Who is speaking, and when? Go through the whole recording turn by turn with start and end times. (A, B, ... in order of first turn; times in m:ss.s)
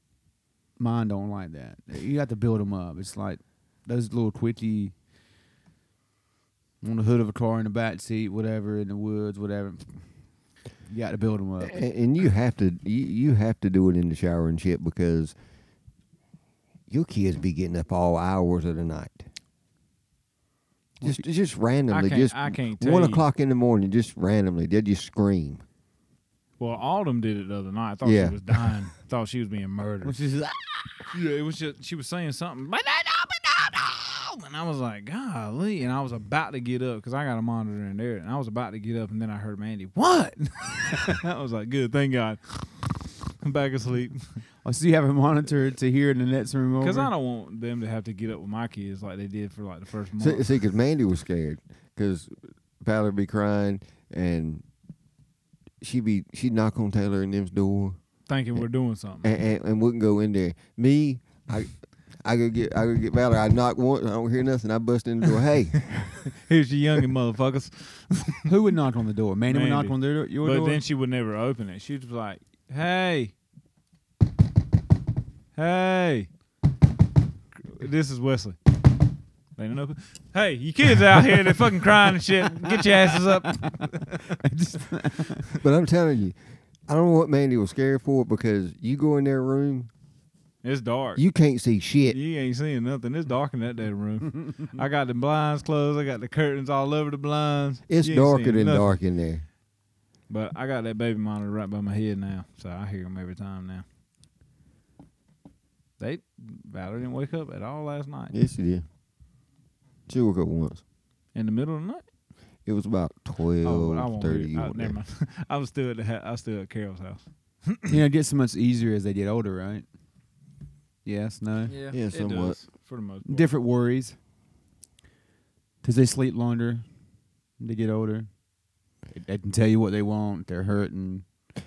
0:00.8-0:04.9 A
0:06.8-0:10.1 A
0:10.9-0:11.8 A
0:11.6-0:15.3 B
0:16.9-0:19.3 B
0:21.0-0:25.6 B
0:21.9-0:23.2 C
0:26.6-0:30.2 C
0:28.0-0:28.6 B
0:30.0-0:30.9 A
0:31.1-0:44.4 C
0:44.6-0:47.1 A
0:46.8-0:50.4 C
0:50.2-0:52.3 B
0:52.8-0:54.6 B
0:55.8-0:58.0 B
0:58.3-0:59.3 C
0:59.2-1:06.2 B
1:06.2-1:08.5 C
1:08.5-1:10.8 A
1:09.5-1:13.3 C
1:15.5-1:16.3 C
1:17.6-1:18.6 C
1:19.6-1:24.4 C
1:22.5-1:25.5 A
1:25.5-1:29.9 B
1:30.6-1:31.2 C
1:31.2-1:32.2 B
1:32.1-1:39.0 C
1:37.9-1:39.4 B
1:40.3-1:43.8 C
1:46.0-1:48.3 C
1:48.3-1:48.8 B
1:50.1-1:50.8 B
1:51.3-1:52.0 C
1:52.6-1:55.0 B
1:53.6-1:57.9 C
1:57.9-1:59.8 A
2:01.0-2:01.7 A
2:01.7-2:03.5 C
2:01.9-2:02.6 B
2:03.2-2:04.2 A
2:05.8-2:06.8 A
2:07.6-2:08.3 A
2:09.1-2:11.2 A